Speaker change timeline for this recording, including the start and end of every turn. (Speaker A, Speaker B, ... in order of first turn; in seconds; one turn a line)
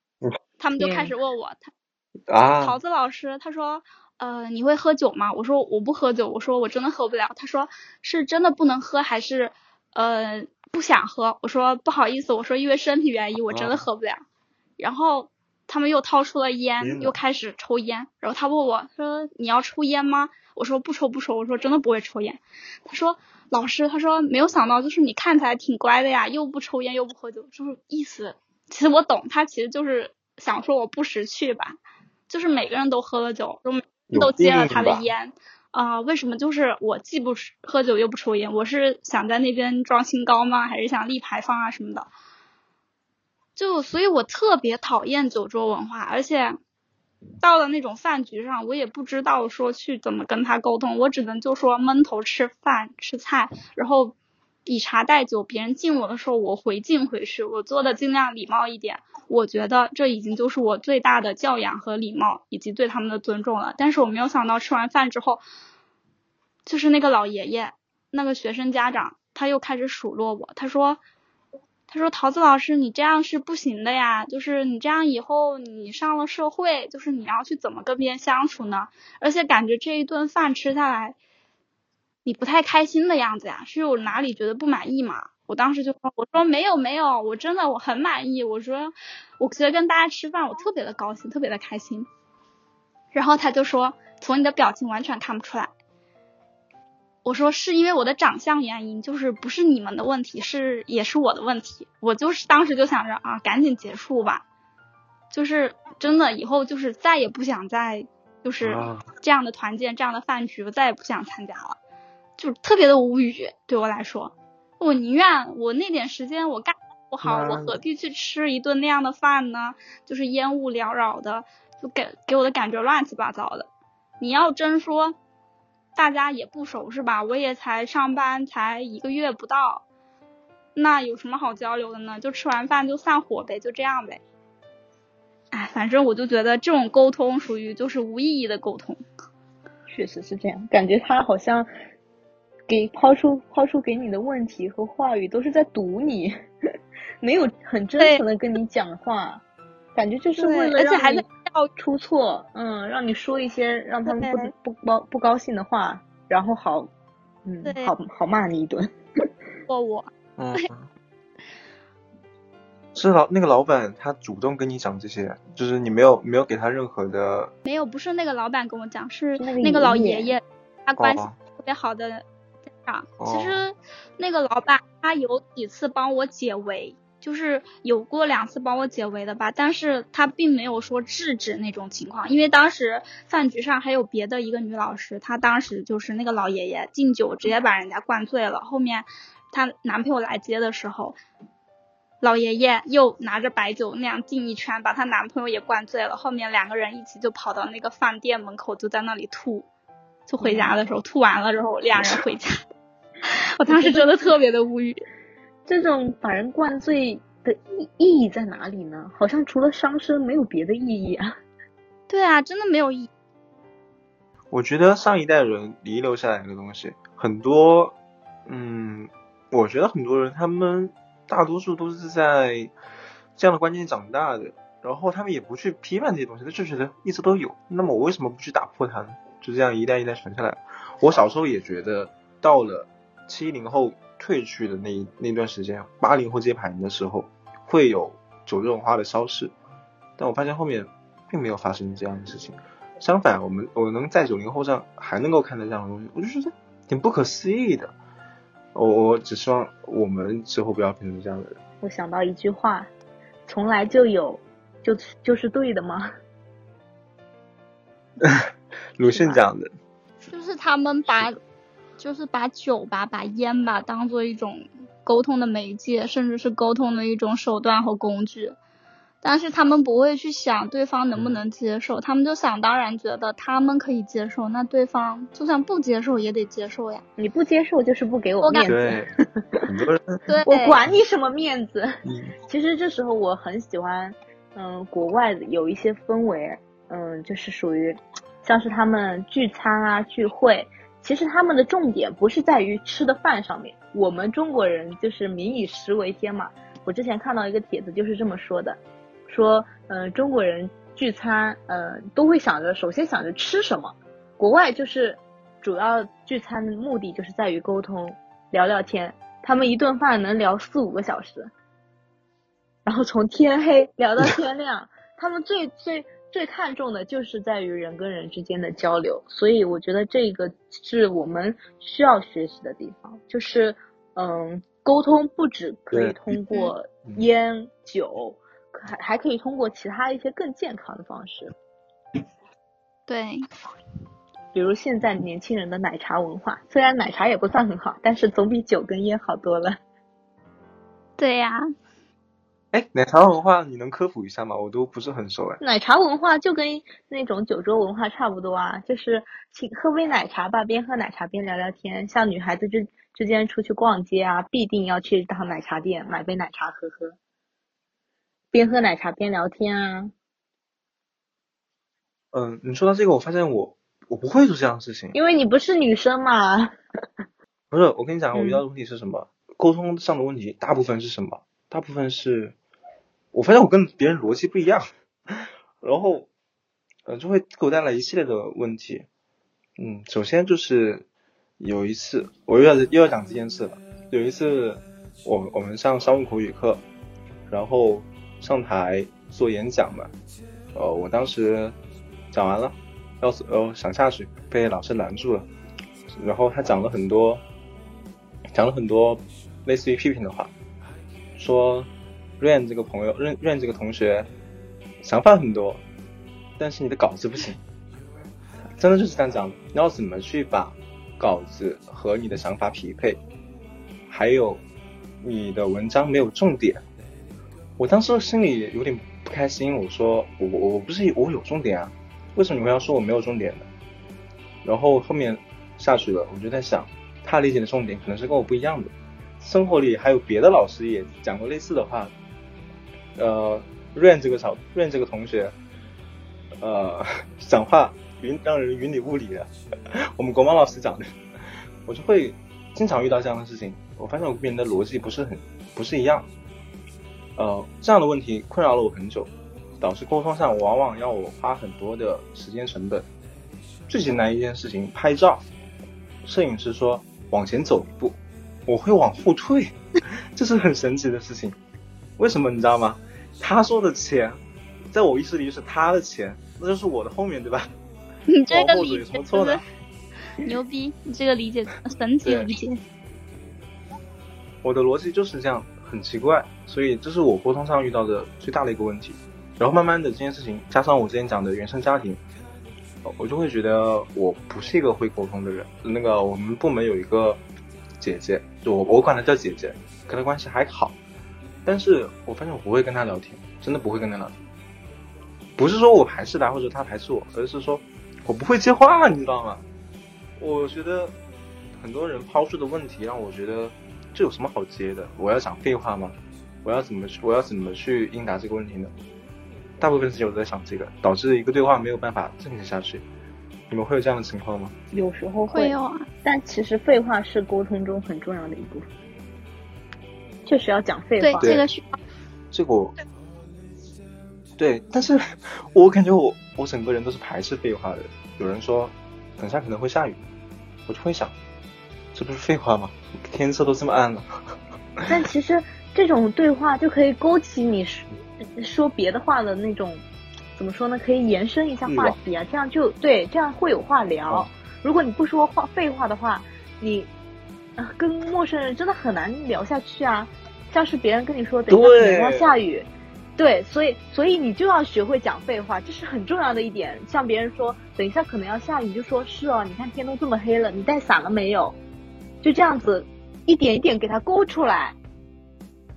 Speaker A: 0.6-1.7
Speaker B: 2.3-2.8
Speaker A: 2.6-14.2
Speaker B: 13.5-13.8
Speaker A: 14.8-31.8
Speaker B: 16.8-17.1
Speaker A: 32.3-42.1
Speaker B: 34.1-35.1
Speaker A: 43.5-46.6
Speaker A: 47.4-54.1
Speaker A: 54.6-65.4
Speaker A: 66.7-71.0
Speaker A: 71.9-81.2
Speaker A: 82.2-92.1
Speaker A: 93.1-95.7
Speaker A: 97.2-104.4
Speaker A: 105.3-111.8
Speaker B: 108.6-109.1
Speaker A: 112.4-123.7
Speaker B: 117.2-117.8
Speaker A: 124.2-125.2
Speaker A: 126.0-129.8
Speaker A: 130.8-134.2
Speaker A: 135.5-139.0
Speaker C: 139.9-141.7
Speaker C: 142.7-146.3
Speaker C: 147.2-149.4
Speaker A: 148.0-148.2
Speaker C: 149.9-151.2
Speaker A: 150.4-151.7
Speaker C: 151.8-156.9
Speaker A: 154.1-154.5
Speaker C: 157.4-158.9
Speaker A: 157.6-157.9
Speaker A: 159.7-160.7
Speaker B: 160.4-160.9
Speaker B: 162.9-167.5
Speaker A: 167.7-172.2
Speaker C: 169.4-170.3
Speaker B: 171.0-171.3
Speaker A: 172.8-191.2
Speaker B: 173.2-173.6
Speaker A: 192.2-199.7
Speaker A: 200.3-202.5
Speaker C: 200.4-200.8
Speaker A: 203.3-205.0
Speaker C: 203.7-204.3
Speaker C: 205.7-211.3
Speaker A: 212.1-213.1
Speaker B: 214.5-222.7
Speaker B: 223.4-239.5
Speaker B: 240.2-247.9
Speaker B: 248.7-251.6
Speaker C: 251.8-252.9
Speaker C: 253.5-256.1
Speaker B: 258.2-259.7
Speaker C: 259.1-259.4
Speaker A: 260.3-261.4
Speaker A: 262.0-268.6
Speaker A: 269.2-277.0
Speaker C: 277.2-279.6
Speaker B: 278.6-279.1
Speaker B: 279.6-280.2
Speaker A: 280.3-280.8
Speaker C: 280.4-281.9
Speaker B: 282.0-282.3
Speaker C: 282.5-311.5
Speaker C: 312.9-331.5
Speaker A: 333.1-333.4
Speaker C: 334.5-339.8
Speaker A: 341.2-341.6
Speaker B: 342.7-345.6
Speaker C: 345.6-357.1
Speaker C: 358.5-360.1
Speaker B: 362.3-365.1
Speaker C: 365.1-366.7
Speaker B: 367.7-372.5
Speaker C: 368.3-368.6
Speaker B: 373.3-376.3
Speaker B: 377.1-379.1
Speaker B: 379.8-381.1
Speaker B: 381.6-386.8
Speaker B: 387.5-390.1
Speaker B: 390.7-391.8
Speaker B: 392.3-395.5
Speaker B: 396.1-397.4
Speaker B: 398.5-400.5
Speaker B: 401.4-404.3
Speaker B: 405.0-405.8
Speaker B: 406.6-407.6
Speaker B: 408.8-413.2
Speaker B: 414.1-414.6
Speaker B: 415.2-416.8
Speaker B: 417.8-423.7
Speaker B: 424.6-432.1
Speaker B: 433.1-435.5
Speaker B: 436.6-441.1
Speaker B: 441.9-446.3
Speaker B: 447.4-453.1
Speaker B: 453.9-455.4
Speaker B: 456.2-459.8
Speaker B: 460.3-461.6
Speaker B: 462.2-464.4
Speaker B: 464.9-467.7
Speaker A: 468.3-469.6
Speaker B: 468.5-469.6
Speaker A: 470.4-472.8
Speaker B: 472.2-472.5
Speaker B: 474.6-482.2
Speaker B: 483.0-487.4
Speaker B: 488.0-491.0
Speaker B: 491.6-494.4
Speaker B: 495.6-499.6
Speaker B: 500.4-501.1
Speaker B: 501.8-508.9
Speaker B: 509.8-513.0
Speaker B: 513.7-514.7
Speaker C: 514.9-518.9
Speaker A: 515.5-516.1
Speaker C: 520.5-521.6
Speaker A: 521.2-521.8
Speaker B: 522.5-522.9
Speaker B: 524.6-530.2
Speaker B: 530.9-531.3
Speaker B: 532.1-534.3
Speaker C: 535.1-540.0
Speaker C: 540.5-547.1
Speaker B: 541.9-542.1
Speaker C: 547.8-561.8
Speaker B: 551.7-552.5
Speaker C: 562.4-565.0